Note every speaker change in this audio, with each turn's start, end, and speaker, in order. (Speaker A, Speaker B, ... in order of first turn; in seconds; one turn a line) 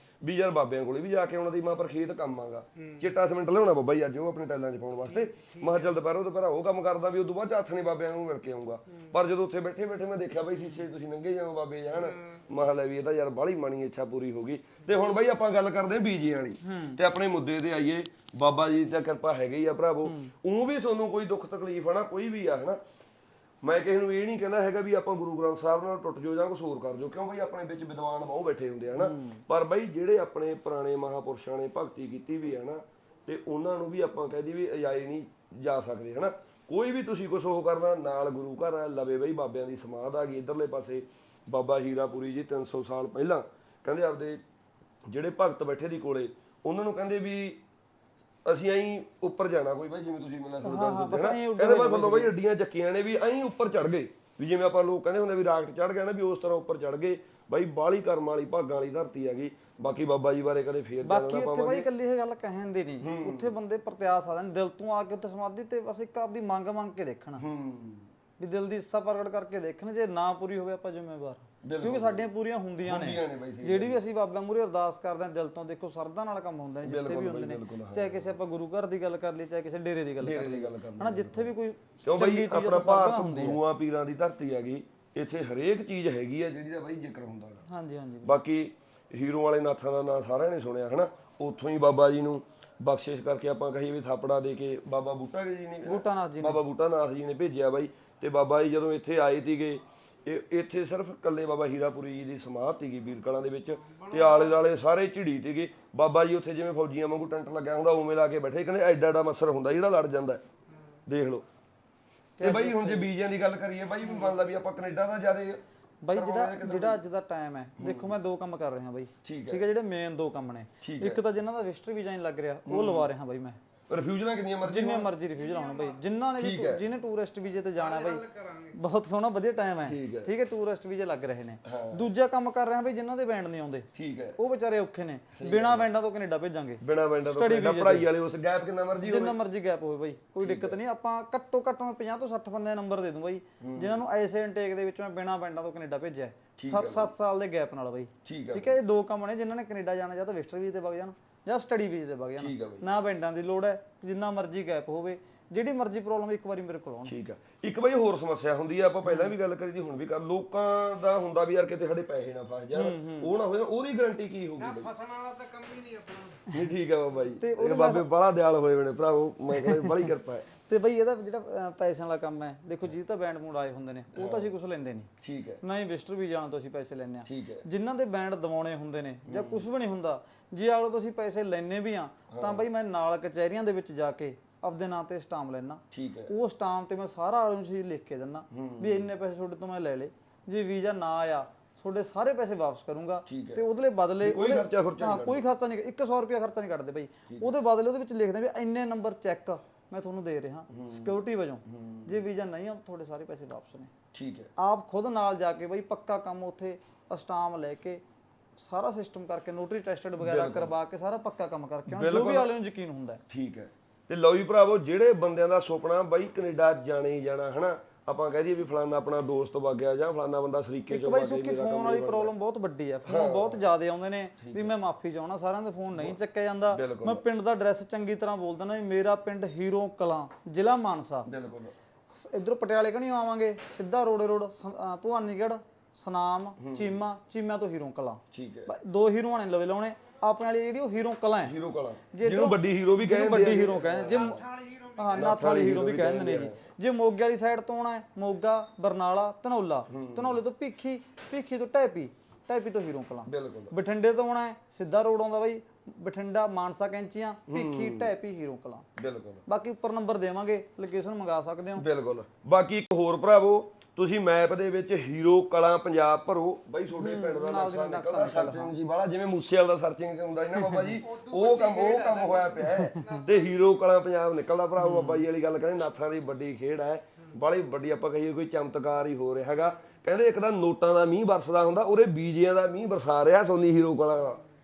Speaker A: 0.2-22.8
Speaker B: 2.8-3.1
Speaker B: 5.1-5.9
Speaker B: 11.9-12.4
Speaker C: 16.6-17.0
Speaker C: 20.1-20.3
Speaker A: 23.6-44.4
Speaker C: 28.9-29.4
Speaker A: 45.1-47.6
Speaker A: 48.4-61.9
Speaker C: 50.6-52.3
Speaker C: 61.0-67.4
Speaker A: 63.0-63.5
Speaker A: 67.4-68.1
Speaker C: 68.4-83.6
Speaker A: 71.6-72.3
Speaker A: 72.8-74.0
Speaker A: 76.8-78.3
Speaker A: 80.2-81.5
Speaker A: 82.0-87.6
Speaker C: 87.7-88.3
Speaker A: 88.2-110.4
Speaker C: 95.8-96.6
Speaker B: 103.9-104.6
Speaker A: 111.1-111.4
Speaker C: 112.4-113.1
Speaker A: 112.4-115.6
Speaker C: 114.1-114.3
Speaker C: 116.0-123.6
Speaker A: 116.1-117.0
Speaker A: 117.8-118.1
Speaker A: 119.2-119.6
Speaker A: 120.8-121.2
Speaker A: 122.7-123.1
Speaker A: 123.9-125.1
Speaker C: 124.6-138.1
Speaker B: 125.3-126.0
Speaker A: 126.4-126.8
Speaker B: 127.7-128.8
Speaker A: 129.8-130.3
Speaker A: 131.7-132.1
Speaker A: 133.9-134.4
Speaker A: 135.3-135.9
Speaker A: 136.8-139.4
Speaker C: 139.0-157.1
Speaker A: 140.4-140.8
Speaker A: 143.6-144.0
Speaker A: 146.6-147.1
Speaker A: 148.2-148.8
Speaker A: 152.4-152.8
Speaker A: 157.1-164.9
Speaker C: 162.7-163.3
Speaker B: 164.6-166.5
Speaker A: 166.5-170.4
Speaker C: 167.4-168.1
Speaker C: 169.6-169.9
Speaker C: 170.7-175.1
Speaker A: 174.1-174.5
Speaker A: 175.2-175.6
Speaker C: 175.6-203.9
Speaker A: 177.2-177.6
Speaker A: 179.3-179.7
Speaker A: 182.3-182.6
Speaker A: 185.9-186.3
Speaker A: 188.5-189.1
Speaker A: 193.3-193.6
Speaker A: 194.2-195.4
Speaker A: 200.7-202.2
Speaker A: 204.1-204.5
Speaker C: 204.6-208.0
Speaker C: 208.6-213.2
Speaker A: 210.2-210.7
Speaker A: 211.9-212.5
Speaker A: 213.3-222.3
Speaker C: 220.9-231.3
Speaker A: 223.1-223.7
Speaker A: 224.4-224.7
Speaker A: 226.7-227.2
Speaker A: 231.3-231.7
Speaker C: 232.1-241.5
Speaker A: 236.6-236.9
Speaker A: 238.3-238.7
Speaker A: 241.4-244.4
Speaker C: 242.1-244.4
Speaker B: 244.1-245.3
Speaker C: 244.9-258.9
Speaker A: 245.1-246.6
Speaker A: 249.9-250.4
Speaker A: 253.2-253.7
Speaker A: 257.5-258.1
Speaker A: 259.0-259.4
Speaker C: 259.5-261.8
Speaker A: 261.8-284.4
Speaker C: 267.0-268.7
Speaker B: 270.9-273.6
Speaker C: 272.6-273.1
Speaker C: 274.8-275.2